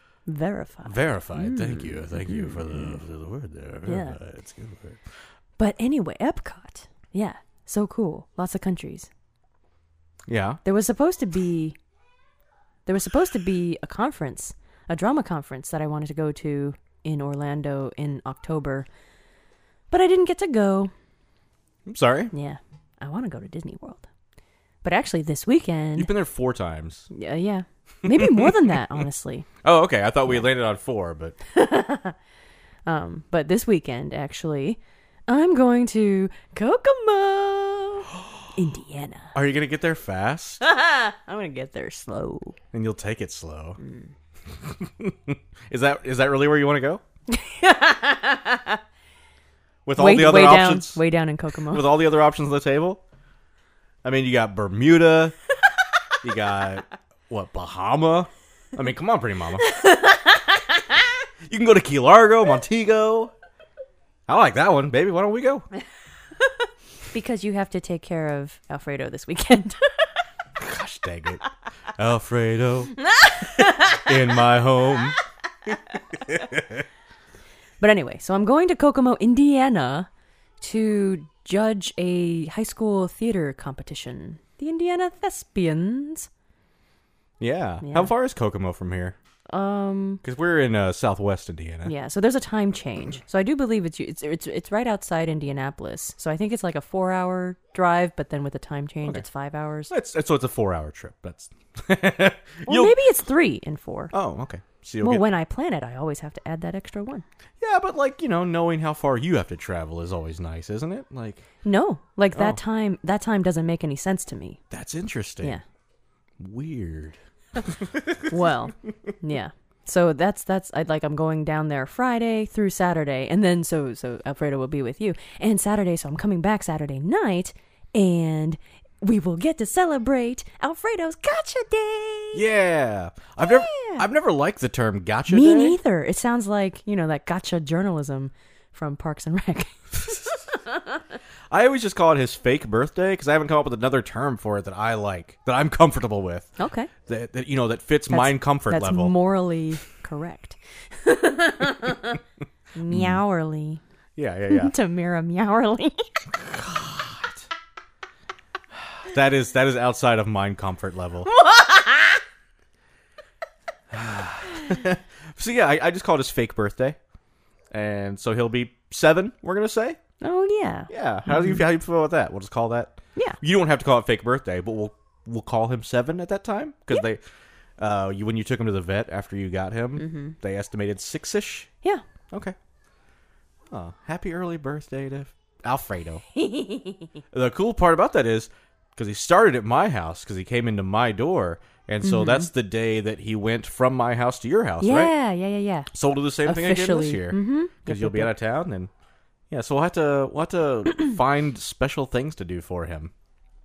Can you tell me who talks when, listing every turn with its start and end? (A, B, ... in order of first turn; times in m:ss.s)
0:00.2-0:03.0 A
0:00.8-0:05.0 B
0:03.8-0:04.2 A
0:05.6-0:09.1 A
0:10.3-0:10.6 B
0:10.6-0:11.8 A
0:12.8-0:18.9 A
0:19.9-0:20.9 A
0:21.8-0:22.3 B
0:22.3-0:24.1 A
0:24.8-0:26.1 A
0:26.0-0:27.1 B
0:27.1-0:29.5 A
0:28.1-0:28.8 B
0:29.6-0:31.4 B
0:31.5-0:32.2 A
0:32.8-0:39.3 A
0:38.2-0:38.4 B
0:39.3-0:40.6 B
0:40.6-0:42.6 A
0:42.7-0:43.8 B
0:43.8-0:44.1 A
0:44.6-0:47.0 B
0:47.3-0:48.8 A
0:49.8-0:51.0 B
0:50.0-0:51.9 A
0:51.7-0:53.0 B
0:54.0-0:55.4 B
0:56.2-0:59.7 B
0:59.6-1:01.1 A
1:01.5-1:03.3 B
1:04.3-1:05.7 B
1:07.1-1:10.2 A
1:10.6-1:11.5 B
1:12.0-1:13.0 B
1:13.0-1:14.3 A
1:13.6-1:15.2 B
1:16.1-1:16.8 B
1:17.8-1:20.1 A
1:20.6-1:26.3 A
1:27.4-1:29.2 B
1:27.8-1:28.1 A
1:29.5-1:30.2 A
1:30.2-1:31.9 B
1:31.8-1:39.9 A
1:39.9-1:43.0 B
1:42.7-1:44.1 A
1:44.1-1:45.3 B
1:45.0-1:47.2 A
1:47.6-1:51.4 B
1:51.6-1:54.6 A
1:52.3-1:52.6 B
1:54.7-1:55.6 B
1:56.4-1:58.3 B
1:58.3-2:12.4 A
2:12.3-2:15.8 B
2:13.4-2:14.0 A
2:15.3-2:21.0 A
2:21.5-2:29.1 B
2:26.6-2:26.9 A
2:28.1-2:32.2 A
2:32.7-2:33.8 A
2:32.8-2:33.2 B
2:34.2-2:34.7 B
2:34.5-2:36.1 A
2:36.3-2:37.4 B
2:39.0-2:41.3 B
2:41.3-2:42.2 A
2:43.9-2:47.0 B
2:47.7-2:50.0 B
2:50.2-2:51.6 A
2:50.9-2:57.2 B
2:57.8-3:01.7 B
3:00.0-3:00.4 A
3:03.7-3:06.2 B
3:06.4-3:07.1 A
3:07.3-3:15.1 B
3:12.0-3:12.5 A
3:14.8-3:15.9 A
3:15.9-3:18.9 B
3:16.4-3:18.3 A
3:19.5-3:23.1 B